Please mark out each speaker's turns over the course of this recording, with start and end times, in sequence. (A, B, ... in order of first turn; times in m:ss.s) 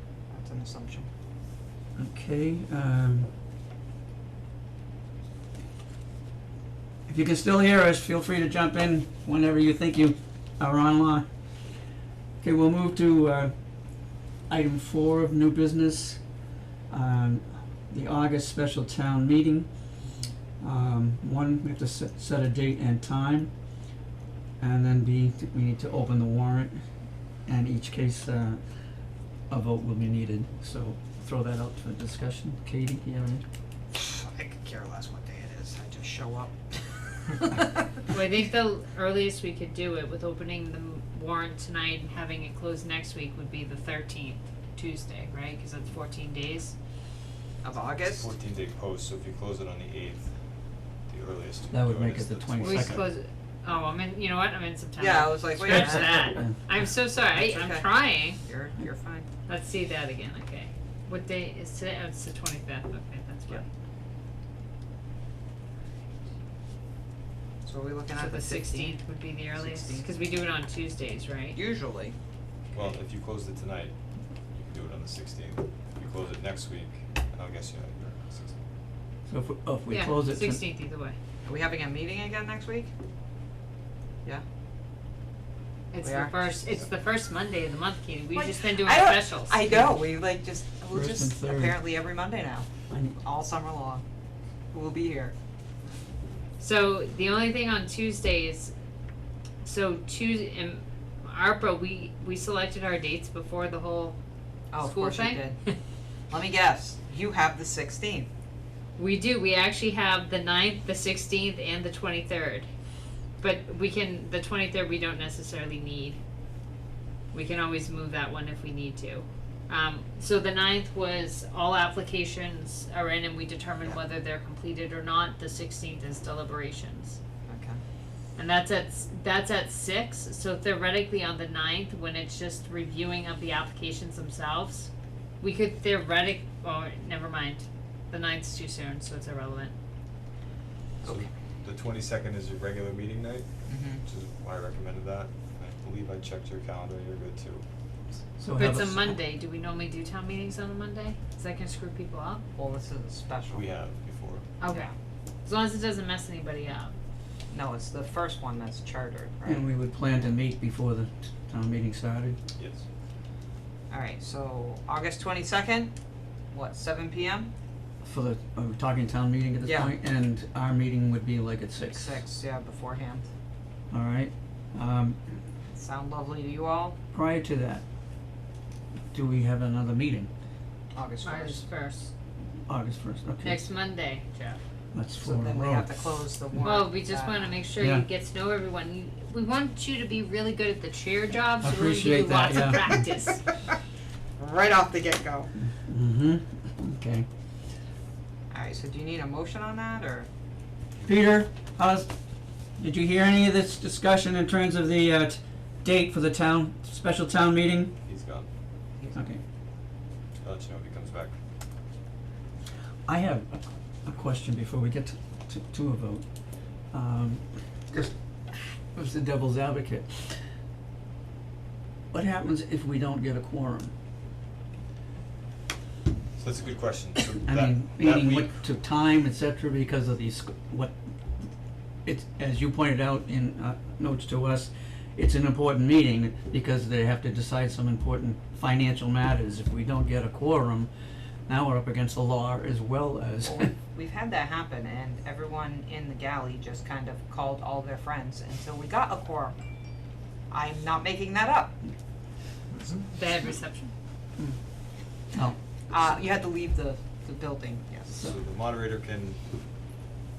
0:00.3-0:01.1 A
0:02.0-0:03.3 B
0:07.1-0:11.3 B
0:12.4-0:13.5 B
0:14.5-0:16.2 B
0:16.9-0:19.7 B
0:20.0-0:20.3 A
0:20.6-0:23.5 B
0:24.6-0:26.8 B
0:27.4-0:28.6 B
0:29.5-0:33.4 B
0:33.9-0:37.8 A
0:38.1-0:46.7 C
0:47.6-0:48.3 A
0:48.0-0:50.3 D
0:51.0-0:53.1 D
0:51.7-0:53.0 B
0:52.6-0:58.4 C
0:55.0-0:56.3 A
0:55.6-0:56.6 B
0:57.3-0:59.3 A
0:59.5-1:03.6 C
1:07.6-1:10.1 A
1:08.1-1:11.6 C
1:11.5-1:12.2 A
1:12.7-1:13.9 D
1:14.5-1:18.6 D
1:19.3-1:20.6 B
1:19.9-1:21.2 C
1:21.4-1:22.9 A
1:25.9-1:29.7 C
1:26.0-1:26.6 A
1:28.3-1:34.0 A
1:30.9-1:31.8 B
1:32.9-1:33.2 B
1:34.7-1:35.3 A
1:36.6-1:38.7 C
1:39.6-1:44.2 C
1:44.7-1:45.6 A
1:44.8-1:45.7 C
1:46.3-1:48.3 A
1:49.0-1:52.7 C
1:53.4-1:56.2 C
1:57.3-2:07.2 C
2:07.4-2:07.8 A
2:08.4-2:19.7 C
2:21.0-2:21.3 A
2:21.0-2:27.6 D
2:23.7-2:24.0 A
2:28.4-2:29.2 B
2:28.5-2:32.4 C
2:32.6-2:33.7 A
2:33.5-2:34.5 D
2:34.6-2:34.9 C
2:34.7-2:34.9 A
2:35.4-2:36.9 C
2:37.5-2:39.7 A
2:39.4-2:42.4 B
2:42.5-2:42.8 D
2:43.9-2:45.9 A
2:46.5-2:47.5 A
2:48.0-2:52.2 B
2:49.6-2:49.9 A
2:51.9-2:53.2 A
2:53.9-2:55.2 B
2:55.7-2:57.0 A
2:57.1-2:57.8 B
2:59.1-3:00.3 B
3:00.9-3:01.6 A
3:01.2-3:02.1 C
3:02.7-3:03.6 B
3:03.4-3:04.6 C
3:04.9-3:06.0 B
3:05.2-3:07.6 A
3:06.6-3:13.4 C
3:07.8-3:08.1 B
3:11.6-3:13.0 B
3:14.4-3:15.5 A
3:15.8-3:17.2 B
3:18.5-3:20.3 A
3:21.0-3:22.1 B
3:22.8-3:27.9 B
3:28.0-3:28.5 D
3:29.1-3:29.4 B
3:30.4-3:31.3 D
3:33.1-3:36.2 B
3:36.9-3:38.1 B
3:38.9-3:40.4 B
3:42.1-3:43.9 B
3:46.4-3:48.6 D
3:47.4-3:51.4 B
3:52.0-4:00.9 B
4:01.5-4:03.7 B
4:03.4-4:09.6 A
4:10.5-4:11.8 A
4:13.1-4:13.9 C
4:15.9-4:18.2 A
4:18.1-4:19.4 D